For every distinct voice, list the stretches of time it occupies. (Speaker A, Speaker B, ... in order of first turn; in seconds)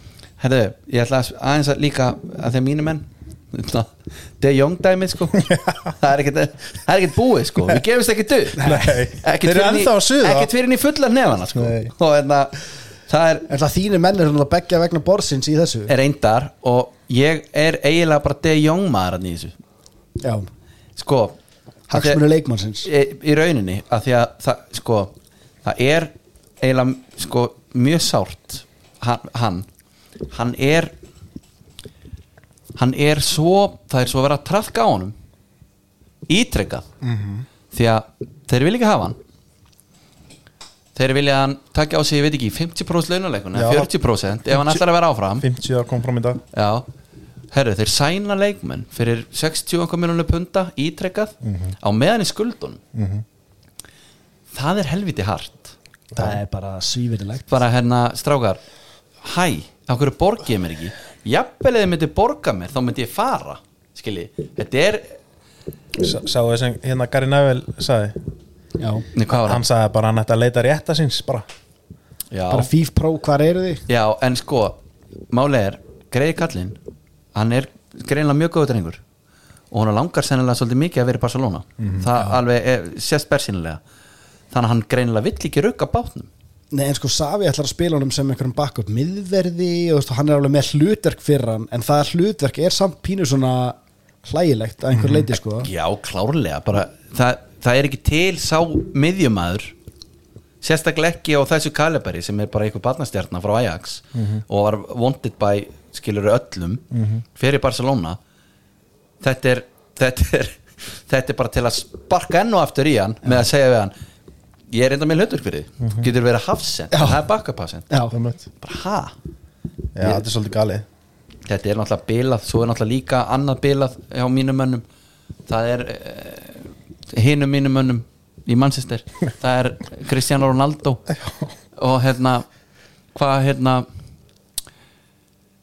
Speaker A: 0.4-12.5, 13.1-13.5, 15.9-19.5, 21.0-21.4, 21.9-22.2, 22.8-25.1, 25.6-29.6, 30.3-30.9, 32.8-35.1, 36.3-36.9, 37.7-39.2, 40.9-45.4, 46.5-46.9, 47.5-52.8, 54.5-55.7, 57.5-58.6, 59.2-65.2, 69.1-69.6, 72.3-72.7, 73.9-74.8, 75.3-76.8, 77.3-79.0, 79.7-83.8, 84.5-86.3, 95.5-99.7, 100.6-106.8, 107.3-108.2, 109.2-113.9, 114.7-117.9, 118.6-119.1, 121.5-124.8, 125.5-131.0, 131.8-132.4, 133.1-133.8
Speaker B: 8.6-8.9, 13.5-15.9, 20.2-20.5, 21.9-22.9, 56.1-57.5, 68.8-69.0, 72.5-73.8, 86.7-95.7, 116.9-117.2, 117.9-118.1
Speaker C: 8.6-10.5, 11.5-11.9, 37.0-37.4, 43.5-43.9, 44.5-44.8, 45.4-46.4, 51.4-51.7, 52.9-53.2, 56.1-56.4, 66.0-68.2, 69.4-71.4, 81.8-82.0, 94.9-95.3, 104.1-104.4, 106.9-107.2, 118.1-118.5, 119.9-120.8